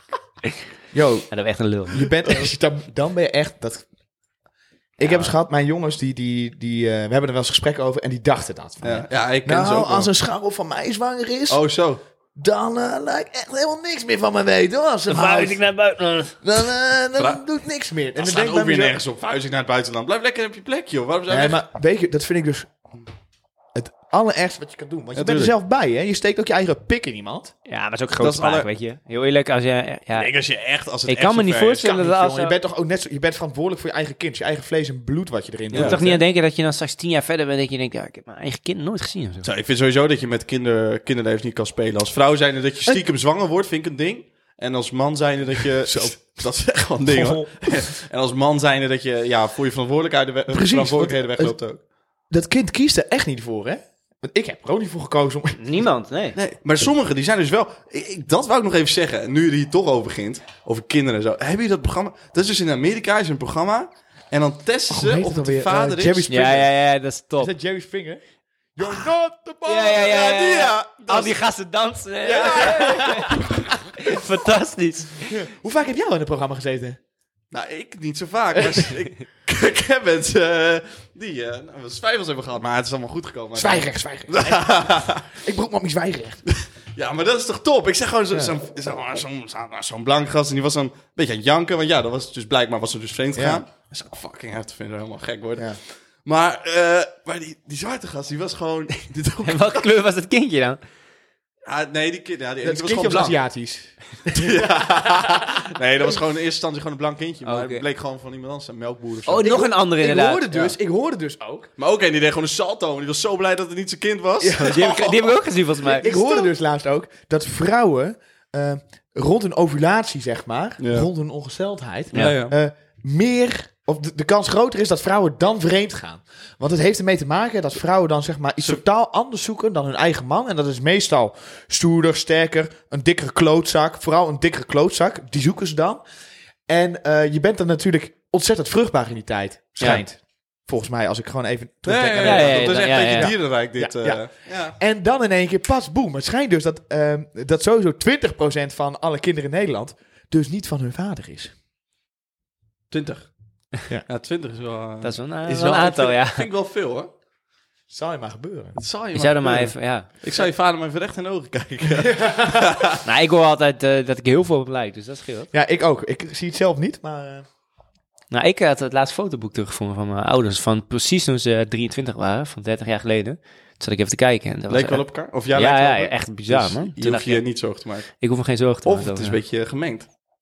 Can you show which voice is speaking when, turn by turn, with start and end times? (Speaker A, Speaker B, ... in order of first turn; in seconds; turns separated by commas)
Speaker A: 0.9-1.3, Speaker B: 1.3-2.1, Speaker A: 1.9-3.9, Speaker A: 5.0-11.6, Speaker B: 5.0-5.3, Speaker C: 8.8-10.1, Speaker C: 11.5-12.0, Speaker A: 12.4-15.6, Speaker B: 15.1-16.4, Speaker A: 16.4-19.0, Speaker C: 17.2-17.4, Speaker C: 18.1-21.6, Speaker A: 21.3-22.7, Speaker A: 23.7-27.5, Speaker C: 25.1-25.5, Speaker B: 27.7-30.3, Speaker C: 28.2-28.7, Speaker C: 30.1-31.8, Speaker B: 31.1-32.6, Speaker A: 31.8-36.2, Speaker C: 35.7-36.0, Speaker B: 35.7-39.5, Speaker C: 39.4-51.8, Speaker A: 45.8-46.2, Speaker A: 47.1-47.9, Speaker A: 50.5-51.5, Speaker A: 52.3-55.7, Speaker B: 55.6-56.4, Speaker C: 56.4-66.5, Speaker A: 64.9-66.7, Speaker B: 66.3-67.5, Speaker A: 67.4-68.2, Speaker A: 68.8-70.3, Speaker B: 69.7-75.4, Speaker C: 69.9-71.4, Speaker C: 72.3-72.9, Speaker A: 72.3-73.6, Speaker A: 75.3-77.0, Speaker C: 77.5-85.3, Speaker A: 83.5-86.4, Speaker C: 86.5-99.9, Speaker A: 93.3-93.6, Speaker B: 99.4-100.8, Speaker C: 101.7-103.4, Speaker A: 102.6-105.5, Speaker C: 104.3-109.5, Speaker B: 107.5-107.8, Speaker B: 109.3-110.5, Speaker A: 109.4-111.7, Speaker C: 111.8-115.3, Speaker A: 114.4-114.8, Speaker B: 114.5-116.4, Speaker A: 115.9-136.0, Speaker C: 120.8-121.1, Speaker B: 122.1-122.4, Speaker C: 122.1-122.6, Speaker A: 136.7-151.5, Speaker C: 141.8-144.8, Speaker B: 142.2-143.3, Speaker C: 152.9-153.3, Speaker C: 154.1-157.1, Speaker B: 155.0-156.5, Speaker A: 157.9-158.8, Speaker C: 158.8-163.0, Speaker B: 159.2-160.1, Speaker A: 162.1-162.6, Speaker B: 163.0-165.5, Speaker A: 165.5-167.5, Speaker B: 168.3-177.5, Speaker C: 174.7-178.2, Speaker B: 178.1-179.4, Speaker C: 178.8-180.1